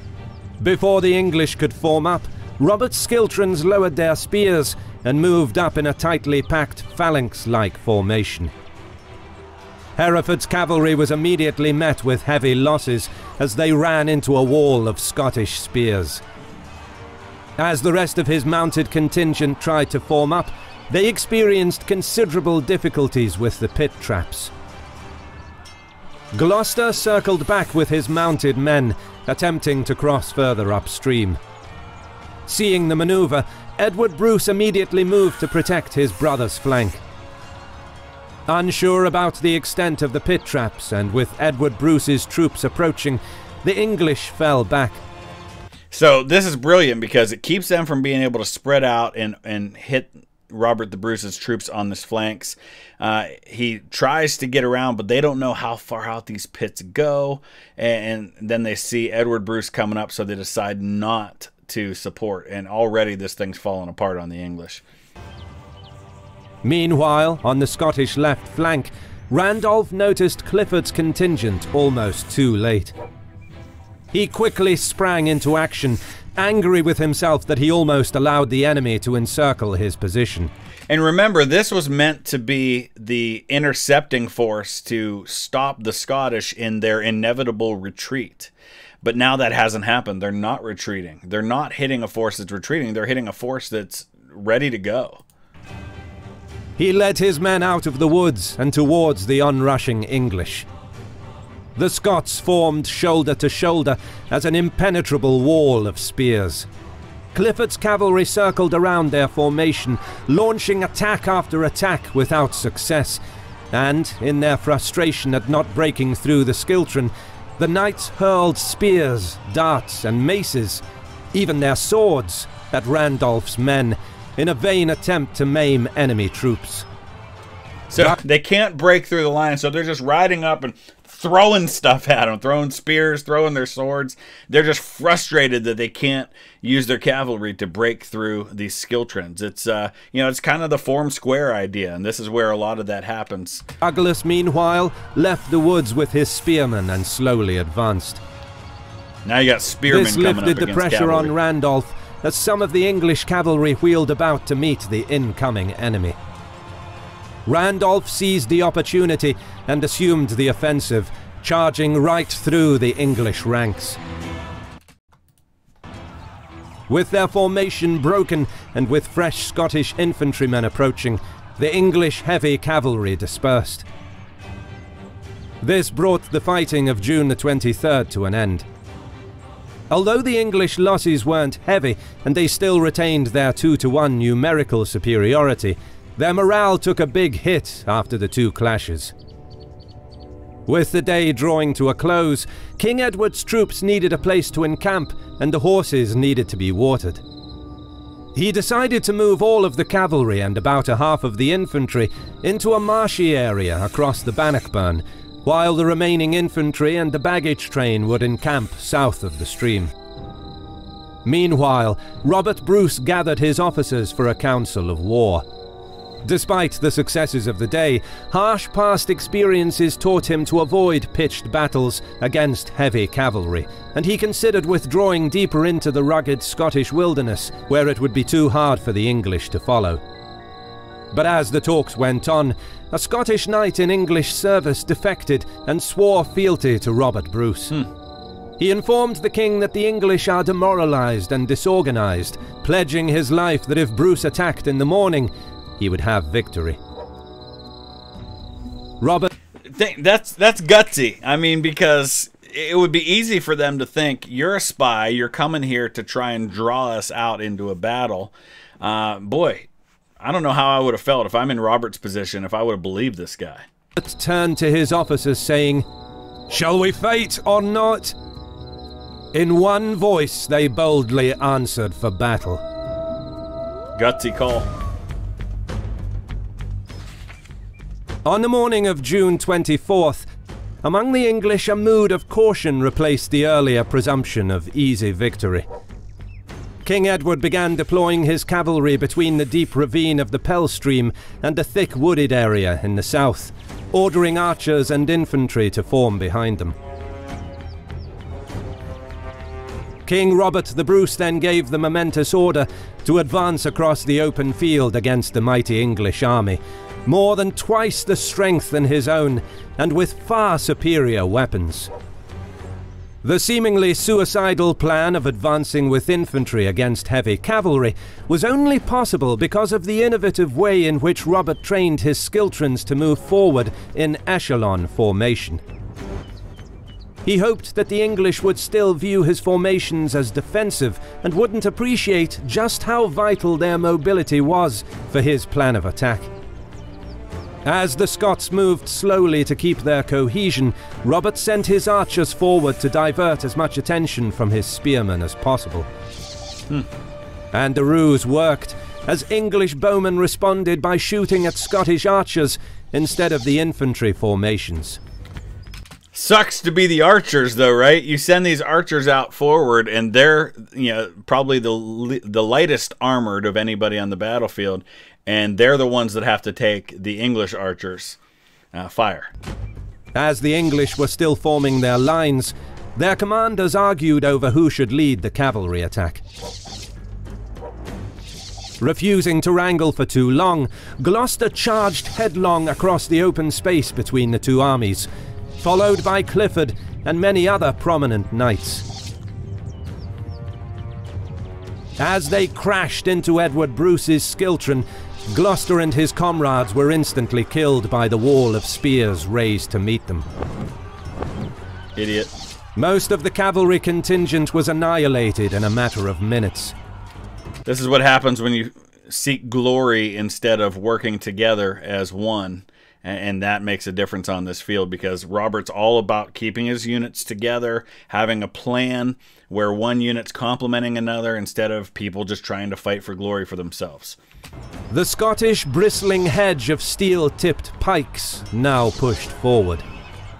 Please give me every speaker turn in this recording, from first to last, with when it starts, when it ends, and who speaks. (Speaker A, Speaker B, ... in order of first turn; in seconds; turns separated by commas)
Speaker A: 0.6-8.5, Speaker A: 9.9-16.2, Speaker A: 17.6-24.5, Speaker A: 26.3-31.4, Speaker A: 32.5-37.0, Speaker A: 38.5-45.0, Speaker B: 45.9-64.8, Speaker A: 66.6-72.9, Speaker A: 74.1-80.5, Speaker B: 80.9-95.2, Speaker A: 96.8-100.7, Speaker A: 101.8-106.7, Speaker A: 107.3-113.2, Speaker A: 113.7-120.8, Speaker A: 121.3-126.8, Speaker B: 127.9-143.6, Speaker A: 143.8-148.2, Speaker B: 149.2-151.3, Speaker A: 149.9-156.2, Speaker A: 157.4-164.0, Speaker A: 166.9-173.8, Speaker A: 175.6-178.7, Speaker A: 179.9-189.1, Speaker A: 190.7-197.2, Speaker A: 198.3-209.9, Speaker A: 211.2-215.4, Speaker A: 216.2-230.0, Speaker A: 231.1-237.9, Speaker A: 238.6-246.8, Speaker A: 249.0-249.3, Speaker B: 249.7-259.7, Speaker B: 260.2-263.6, Speaker A: 263.9-265.9, Speaker A: 266.5-268.1, Speaker A: 269.3-272.6, Speaker B: 273.9-274.7, Speaker A: 278.2-280.3, Speaker A: 280.8-285.6, Speaker A: 286.8-296.7, Speaker A: 300.1-311.9, Speaker A: 313.2-325.6, Speaker A: 327.2-336.3, Speaker A: 337.6-345.9, Speaker A: 347.5-355.0, Speaker B: 356.1-368.2, Speaker B: 368.7-369.3, Speaker A: 370.1-376.2, Speaker A: 378.8-385.1, Speaker A: 385.6-388.9, Speaker A: 392.0-400.2, Speaker B: 401.9-402.3, Speaker A: 402.8-406.7, Speaker B: 407.6-424.2, Speaker A: 424.9-429.8